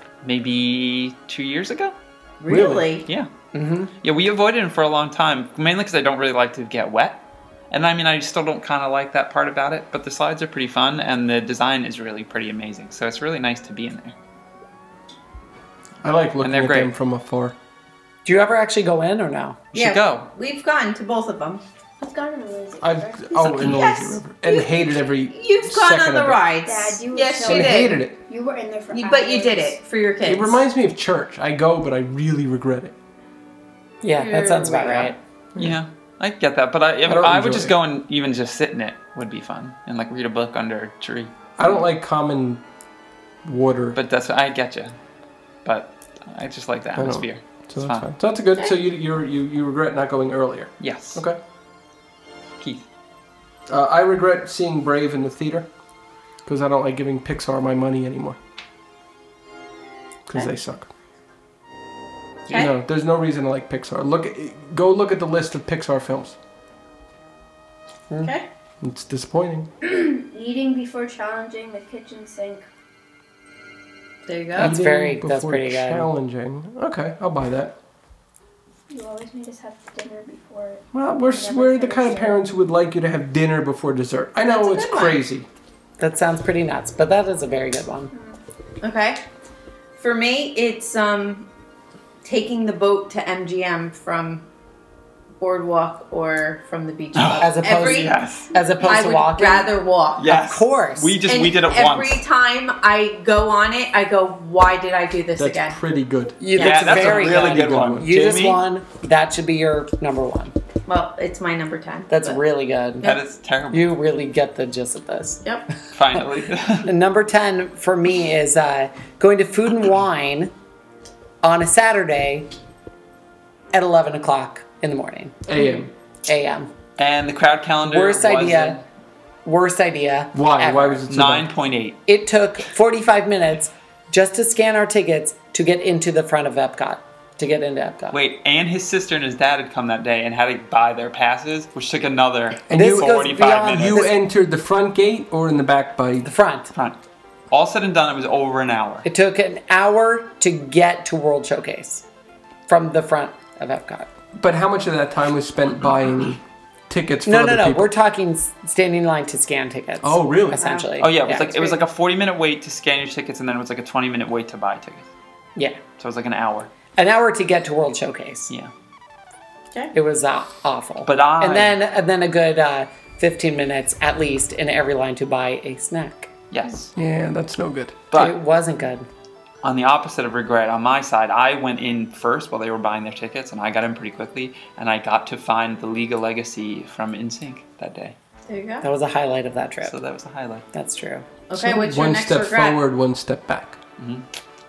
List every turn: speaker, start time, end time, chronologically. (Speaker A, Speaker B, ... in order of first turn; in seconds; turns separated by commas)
Speaker A: 0.2-1.9, Speaker B: 2.4-3.0, Speaker C: 2.5-2.9, Speaker D: 3.5-3.9, Speaker A: 4.0-14.1, Speaker C: 16.0-17.5, Speaker A: 16.4-16.9, Speaker D: 18.2-19.6, Speaker A: 19.7-20.3, Speaker B: 19.7-21.6, Speaker E: 22.0-23.3, Speaker C: 22.8-26.4, Speaker B: 23.3-28.0, Speaker E: 26.6-29.8, Speaker C: 27.4-28.1, Speaker B: 28.9-30.6, Speaker C: 30.2-32.9, Speaker D: 34.0-35.2, Speaker B: 34.1-35.1, Speaker A: 35.6-41.3, Speaker C: 37.0-37.7, Speaker C: 41.6-42.6, Speaker C: 43.4-44.0, Speaker A: 43.9-44.9, Speaker A: 45.6-48.1, Speaker C: 47.0-51.4, Speaker A: 50.8-51.2, Speaker A: 52.6-52.8, Speaker C: 53.7-55.7, Speaker C: 56.4-58.4, Speaker C: 60.3-60.9, Speaker C: 62.5-66.4, Speaker C: 68.8-69.7, Speaker E: 69.8-72.6, Speaker B: 74.2-74.7, Speaker C: 74.5-77.8, Speaker D: 74.6-76.1, Speaker E: 78.9-82.4, Speaker C: 80.9-85.5, Speaker B: 84.5-85.2, Speaker D: 86.0-88.1, Speaker E: 88.1-88.4, Speaker B: 88.8-89.2, Speaker B: 90.0-91.5, Speaker B: 92.2-94.5, Speaker B: 95.4-98.1, Speaker A: 97.1-98.5, Speaker D: 97.4-99.7, Speaker B: 98.8-100.3, Speaker A: 100.2-102.2, Speaker D: 100.3-101.2, Speaker B: 101.2-105.8, Speaker C: 105.4-108.1, Speaker D: 106.4-110.5, Speaker B: 106.5-106.8, Speaker A: 106.5-108.6, Speaker B: 110.8-112.4, Speaker D: 112.1-113.1, Speaker A: 113.0-113.9, Speaker D: 113.7-115.4, Speaker A: 115.9-116.9, Speaker D: 116.8-120.5, Speaker D: 121.4-122.5, Speaker D: 123.7-125.5, Speaker C: 125.5-125.9, Speaker D: 126.2-126.7, Speaker A: 127.0-128.8, Speaker D: 127.8-128.8, Speaker D: 129.4-131.0, Speaker C: 130.3-131.5, Speaker A: 131.1-132.0, Speaker D: 132.1-138.2, Speaker A: 138.1-144.0, Speaker C: 142.7-146.3, Speaker D: 142.7-144.1, Speaker D: 146.2-146.7, Speaker A: 147.5-149.0, Speaker D: 149.0-152.0, Speaker D: 152.7-154.1, Speaker C: 154.3-157.9, Speaker D: 157.2-161.8, Speaker C: 160.0-160.7, Speaker B: 160.6-160.9, Speaker A: 161.0-165.1, Speaker A: 166.0-166.7, Speaker D: 166.9-168.5, Speaker D: 169.9-176.3, Speaker A: 171.1-171.8, Speaker A: 176.5-176.9, Speaker C: 176.9-178.0, Speaker D: 178.1-179.1, Speaker A: 179.6-188.1, Speaker B: 188.5-188.8, Speaker D: 188.8-189.9, Speaker A: 189.8-190.7, Speaker D: 190.7-191.2, Speaker B: 191.5-192.8, Speaker C: 191.5-193.8, Speaker A: 194.0-194.2